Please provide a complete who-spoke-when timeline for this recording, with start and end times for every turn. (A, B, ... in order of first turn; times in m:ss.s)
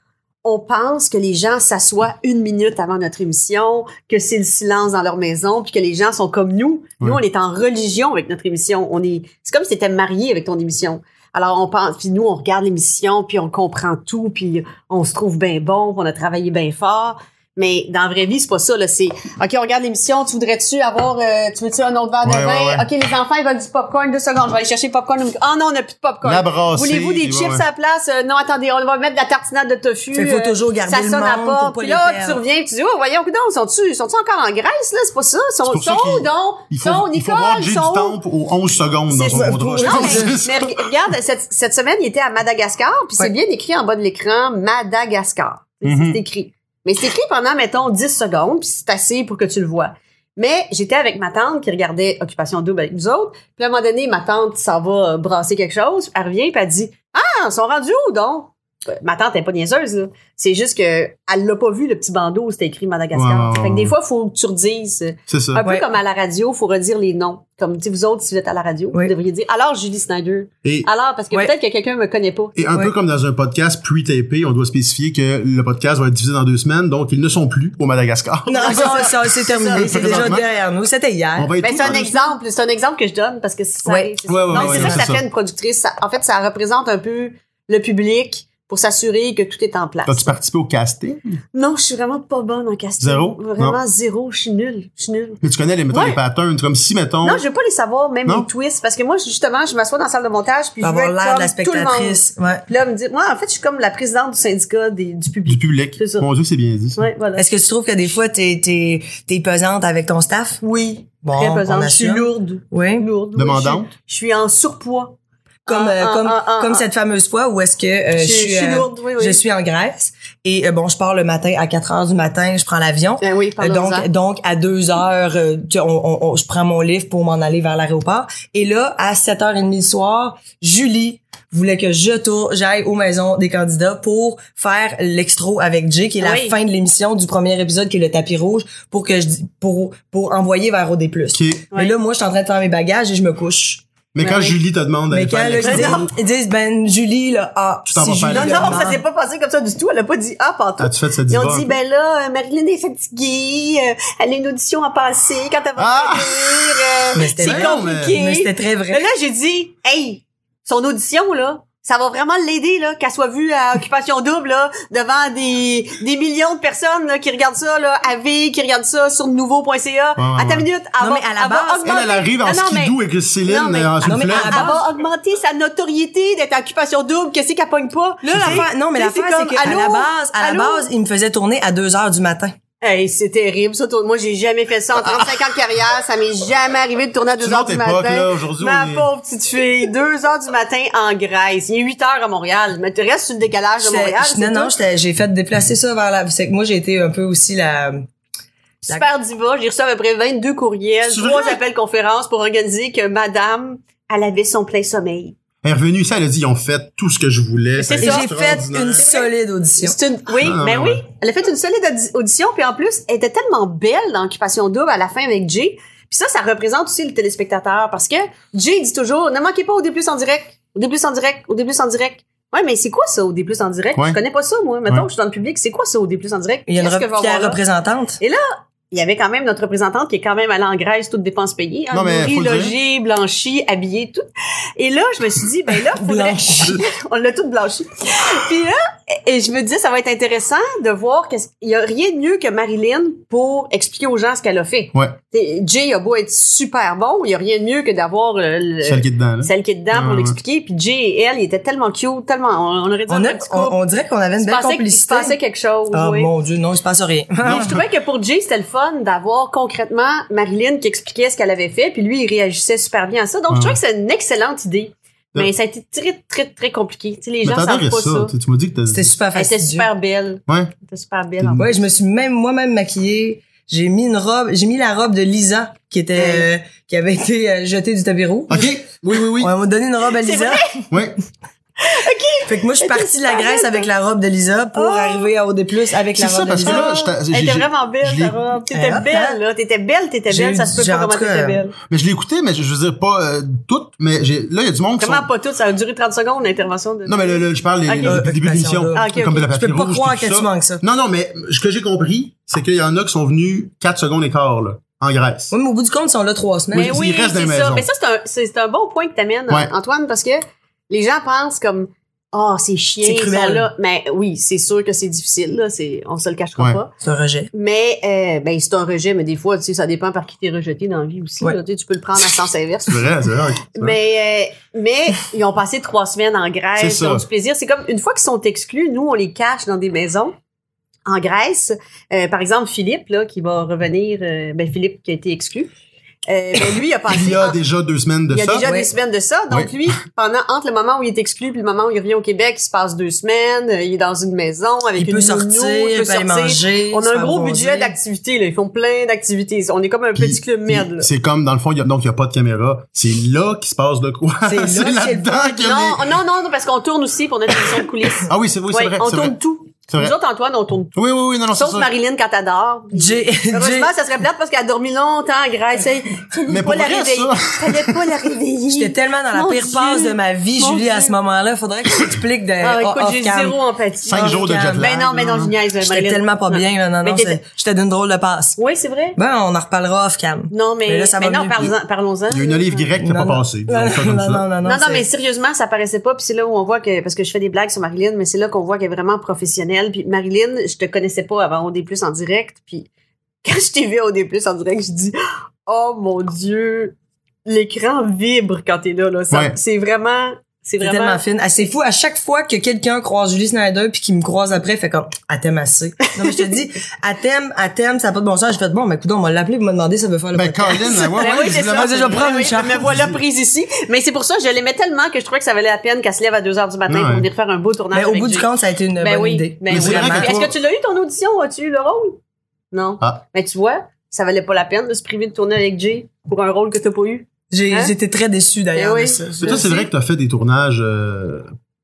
0:00.4-0:38.2 A
0:22.2-0:22.8 B
0:26.2-0:27.6 B
0:30.1-0:32.4 C
0:35.7-0:40.8 B
0:39.1-1:12.6 A
0:39.3-0:40.4 C
0:45.8-0:46.2 B
1:03.1-1:03.9 B
1:05.3-1:05.6 B
1:12.6-1:20.5 B
1:18.5-1:22.0 C
1:18.6-1:20.3 A
1:21.4-1:22.2 B
1:21.6-1:30.4 A
1:23.8-1:25.1 C
1:24.3-1:25.2 B
1:30.1-1:31.4 B
1:31.5-1:35.4 A
1:33.0-1:33.8 B
1:35.4-1:37.4 B
1:35.9-1:36.2 A
1:37.2-1:46.3 A
1:40.8-1:42.7 C
1:45.5-1:47.0 B
1:47.0-1:47.4 A
1:47.4-1:50.6 C
1:50.6-1:55.2 A
1:51.2-1:53.1 C
1:53.4-1:53.9 B
1:55.7-2:23.8 C
1:55.7-1:56.8 A
1:58.2-1:59.4 A
2:03.2-2:04.1 A
2:16.2-2:16.6 A
2:21.3-2:21.7 B
2:24.2-2:26.0 B
2:24.2-2:24.6 A
2:25.1-2:29.0 C
2:25.6-2:26.1 A
2:27.9-2:28.8 B
2:28.3-3:00.9 A
2:30.8-2:31.7 B
2:35.8-2:38.2 B
2:37.2-2:39.1 C
2:50.2-2:50.7 B
2:51.0-2:51.9 C
2:51.8-2:54.8 B
2:54.0-2:54.8 C
2:58.2-3:02.6 C
2:58.3-2:58.6 B
3:02.8-3:14.7 A
3:07.4-3:09.1 B
3:13.8-3:18.0 C
3:18.8-3:25.4 A
3:21.0-3:21.6 B
3:25.6-3:29.1 B
3:27.8-3:47.6 A
3:28.0-3:30.0 C
3:30.4-3:31.0 B
3:46.7-3:48.2 C
3:48.2-3:54.2 A
3:51.9-3:52.8 B
3:54.8-4:13.8 A
3:55.9-3:56.8 C
4:08.8-4:10.4 B
4:13.1-4:15.4 C
4:14.4-4:16.3 A
4:15.9-4:17.7 C
4:17.4-4:17.8 B
4:17.5-4:28.3 A
4:23.5-4:23.8 B
4:27.4-4:29.1 B
4:28.9-4:29.9 C
4:29.4-4:31.7 A
4:30.5-4:30.7 B
4:31.6-4:38.8 C
4:36.2-4:36.5 A
4:38.5-4:39.5 B
4:39.4-4:40.7 C
4:40.2-4:40.8 A
4:40.9-4:41.2 B
4:41.8-4:43.9 A
4:42.5-4:46.9 C
4:44.7-4:45.3 A
4:46.2-4:48.4 B
4:46.6-4:51.8 A
4:48.7-4:49.4 C
4:50.3-4:51.6 C
4:51.9-4:55.3 B
4:55.0-4:58.2 A
4:57.1-5:05.5 B
4:58.0-5:00.8 C
4:58.9-4:59.5 A
5:05.5-5:07.0 C
5:06.7-5:07.9 B
5:06.7-5:16.9 A
5:13.0-5:13.7 C
5:17.0-5:17.5 C
5:17.5-5:23.1 A
5:22.9-5:24.0 B
5:23.7-5:30.3 A
5:26.8-5:27.2 B
5:31.1-5:35.7 A
5:36.3-5:37.6 A
5:37.1-5:38.7 B
5:38.3-5:51.1 A
5:38.6-5:38.9 C
5:45.0-5:48.0 C
5:50.2-5:56.1 B
5:54.4-5:55.7 C
5:55.6-6:01.0 A
5:58.2-5:59.4 B
5:59.9-6:00.2 B
6:01.0-6:01.9 B
6:01.5-6:11.2 A
6:02.9-6:03.9 C
6:06.5-6:08.0 B
6:08.7-6:14.9 C
6:12.6-6:17.4 A
6:14.1-6:15.6 B
6:15.8-6:18.6 C
6:18.6-6:19.2 A
6:19.2-6:21.7 C
6:20.5-6:22.9 A
6:22.3-6:24.4 B
6:23.0-6:25.1 C
6:24.6-6:32.9 A
6:33.4-6:35.2 A
6:35.7-6:41.2 A
6:40.8-6:52.9 C
6:50.3-6:53.2 B
6:50.9-7:02.2 A
6:56.9-6:57.3 B
6:57.9-7:00.4 C
6:59.7-7:00.5 B
7:02.7-7:07.9 A
7:07.5-7:09.7 C
7:08.8-7:09.9 A
7:09.4-7:11.5 B